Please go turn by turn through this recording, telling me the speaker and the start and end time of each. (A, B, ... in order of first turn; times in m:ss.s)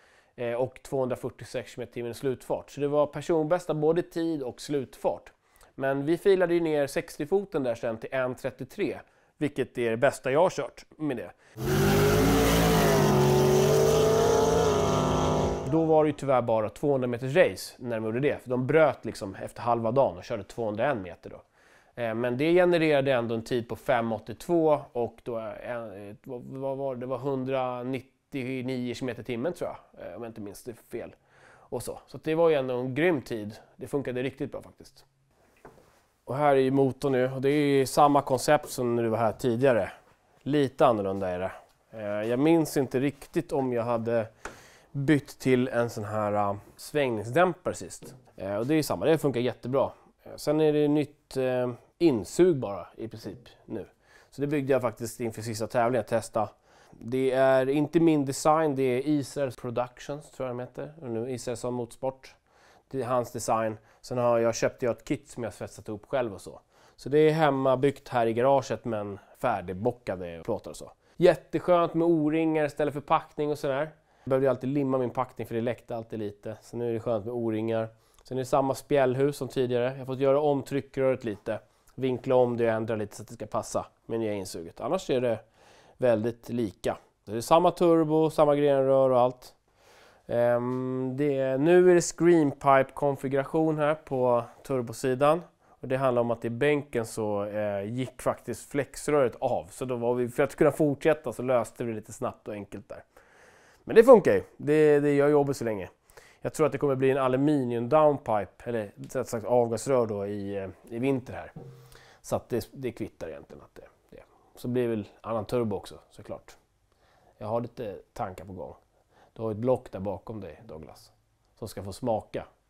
0:00.4-0:11.3 A
0:15.6-0:21.4 A
0:22.0-0:31.2 A
0:31.7-0:35.0 A
0:36.3-0:39.9 A
0:40.4-0:44.3 A
0:44.9-1:02.4 A
1:02.9-1:25.4 A
1:26.0-1:29.5 A
1:30.3-1:43.0 A
1:43.8-1:45.9 A
1:46.4-1:51.5 A
1:52.2-1:56.6 A
1:57.4-1:58.8 A
1:59.3-2:02.4 A